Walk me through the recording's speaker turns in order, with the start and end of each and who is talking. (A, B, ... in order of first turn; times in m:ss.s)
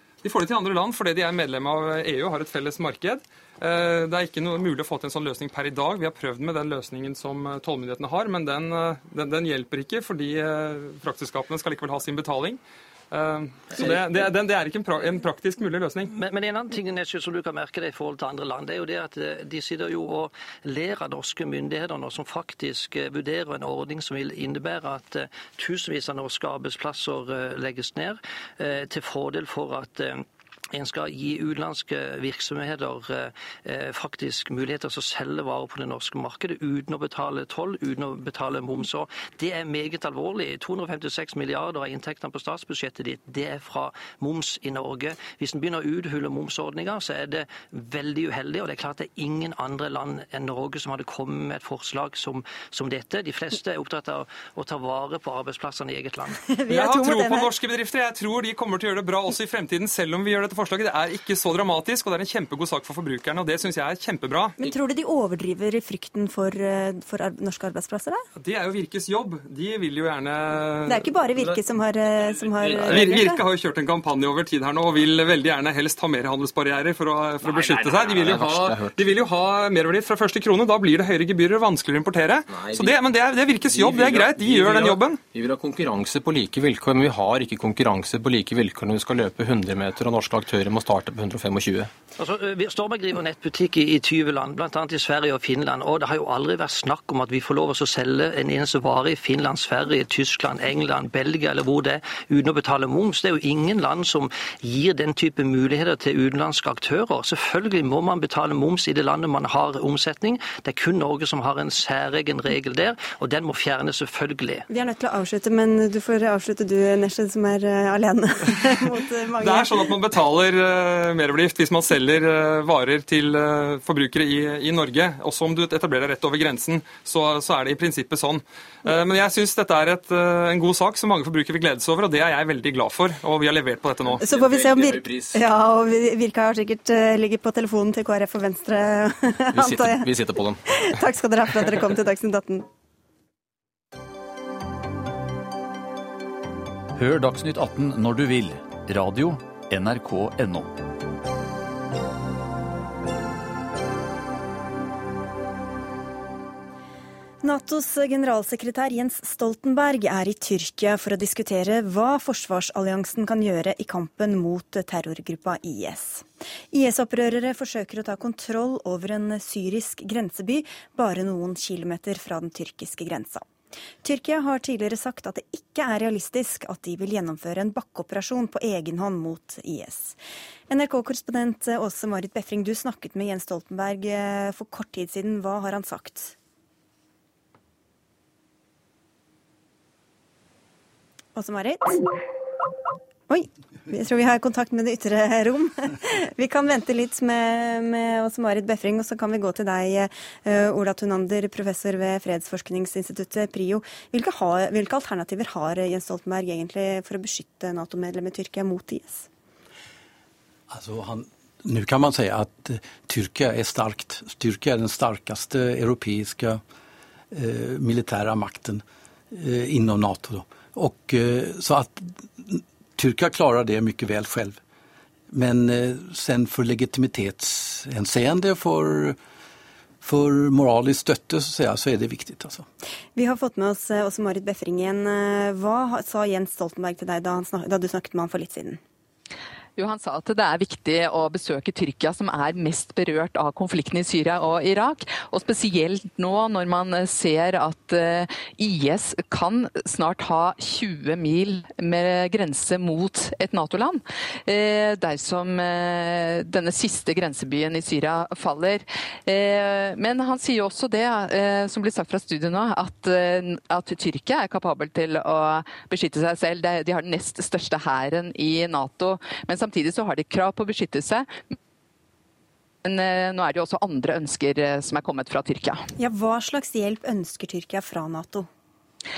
0:00.2-0:16.1 A
0:16.1-0:56.4 B
0:56.5-0:57.5 C
0:56.7-1:04.5 A
1:04.6-1:08.2 C
1:08.4-1:11.0 A
1:10.9-1:13.4 C
1:11.3-1:13.2 D
1:12.9-1:25.2 A
1:17.4-1:19.1 D
1:22.5-1:23.0 D
1:23.6-1:31.9 D
1:32.2-1:54.6 B
1:54.7-1:59.9 C
1:59.4-2:14.2 A
2:14.1-2:15.4 D
2:14.2-2:22.7 C
2:19.5-2:20.6 D
2:26.9-2:30.8 E
2:37.4-2:53.5 C
2:54.0-3:00.2 C
3:00.7-3:06.3 C
3:11.3-3:12.0 C
3:13.3-3:29.3 C
3:30.7-3:36.6 F
3:37.3-3:44.6 F
3:45.3-3:49.2 F
3:50.0-3:52.6 F
3:53.2-3:58.8 C
3:59.8-4:31.5 G
4:32.8-4:35.8 G
4:36.0-4:38.5 C